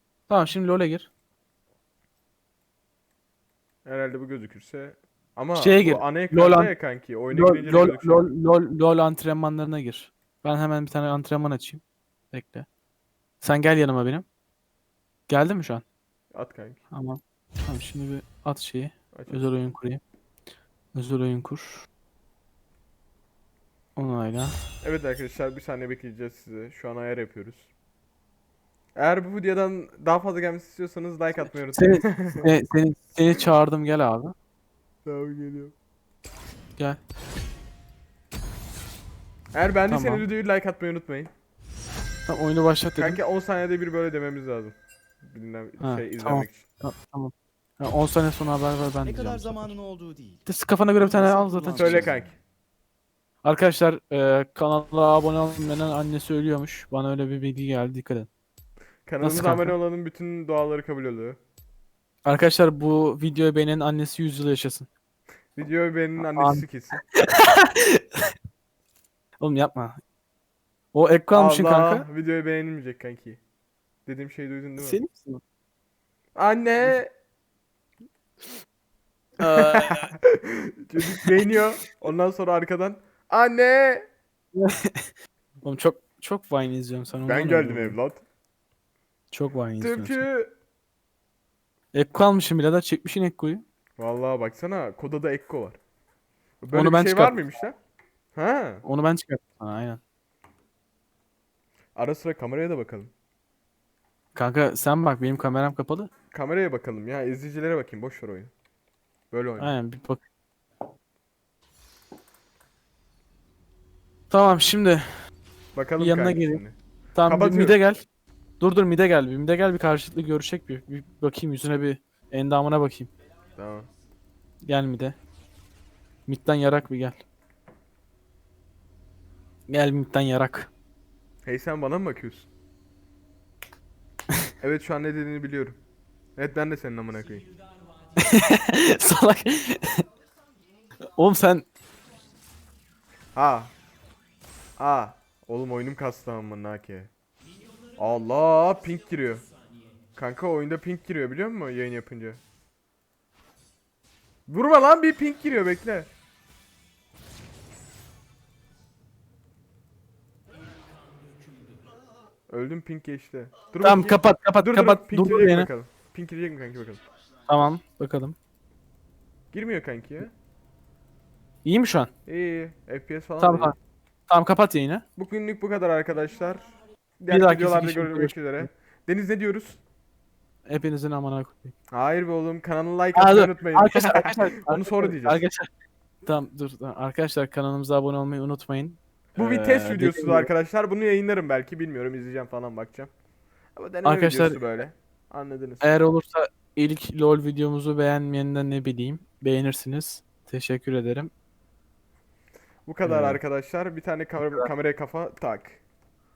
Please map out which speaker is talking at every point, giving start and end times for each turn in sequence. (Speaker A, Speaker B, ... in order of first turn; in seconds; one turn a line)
Speaker A: 0.3-1.1
Speaker B: 3.9-8.3
Speaker A: 5.6-6.7
Speaker A: 7.3-12.7
Speaker A: 13.4-14.2
Speaker A: 15.3-15.8
Speaker B: 16.3-16.8
Speaker A: 16.9-20.0
Speaker B: 19.1-19.4
Speaker A: 20.9-21.9
Speaker A: 24.0-24.6
Speaker B: 24.8-27.7
Speaker B: 29.0-32.5
Speaker A: 31.7-34.3
Speaker B: 35.0-35.7
Speaker B: 39.5-41.3
Speaker A: 39.9-40.3
Speaker A: 42.3-43.2
Speaker B: 43.0-46.7
Speaker A: 45.8-49.7
Speaker C: 49.0-50.4
Speaker A: 50.5-52.1
Speaker C: 51.0-52.3
Speaker B: 51.7-52.3
Speaker A: 53.4-58.3
Speaker B: 59.1-61.4
Speaker A: 59.2-59.8
Speaker A: 62.2-64.9
Speaker B: 65.5-67.0
Speaker A: 66.2-66.7
Speaker A: 67.2-68.2
Speaker A: 69.4-70.0
Speaker A: 70.9-72.1
Speaker B: 71.3-73.4
Speaker B: 74.1-75.0
Speaker A: 74.8-75.4
Speaker B: 76.4-77.1
Speaker A: 79.4-80.1
Speaker B: 79.4-84.0
Speaker A: 84.6-88.0
Speaker B: 87.2-88.2
Speaker A: 89.3-90.2
Speaker B: 89.8-90.5
Speaker A: 91.9-93.6
Speaker B: 94.0-95.8
Speaker B: 96.6-97.8
Speaker A: 96.7-97.3
Speaker B: 98.3-98.8
Speaker A: 98.8-100.0
Speaker B: 102.0-103.1
Speaker A: 104.3-106.1
Speaker B: 106.3-108.5
Speaker B: 109.3-109.8
Speaker A: 109.6-110.2
Speaker A: 114.3-115.2
Speaker B: 115.7-117.8
Speaker A: 116.0-116.6
Speaker A: 117.1-118.0
Speaker A: 118.6-123.1
Speaker B: 123.6-123.9
Speaker A: 124.6-125.2
Speaker A: 126.3-127.2
Speaker A: 129.7-130.7
Speaker B: 131.4-132.5
Speaker B: 134.6-135.8
Speaker B: 136.4-137.5
Speaker A: 138.2-140.1
Speaker A: 141.2-141.7
Speaker B: 143.3-143.7
Speaker B: 144.8-147.1
Speaker B: 148.0-149.5
Speaker B: 150.2-152.4
Speaker B: 154.5-156.1
Speaker B: 162.5-167.0
Speaker A: 163.8-165.7
Speaker A: 167.5-168.4
Speaker B: 169.5-170.3
Speaker A: 171.7-172.1
Speaker B: 172.3-173.8
Speaker A: 173.4-173.8
Speaker A: 174.3-175.0
Speaker B: 175.2-179.8
Speaker A: 177.3-178.7
Speaker A: 180.7-181.7
Speaker B: 181.9-185.4
Speaker A: 183.2-185.7
Speaker A: 186.2-190.5
Speaker B: 189.4-193.1
Speaker B: 193.8-195.9
Speaker A: 194.0-194.7
Speaker A: 195.8-201.3
Speaker B: 202.9-205.8
Speaker A: 203.0-203.4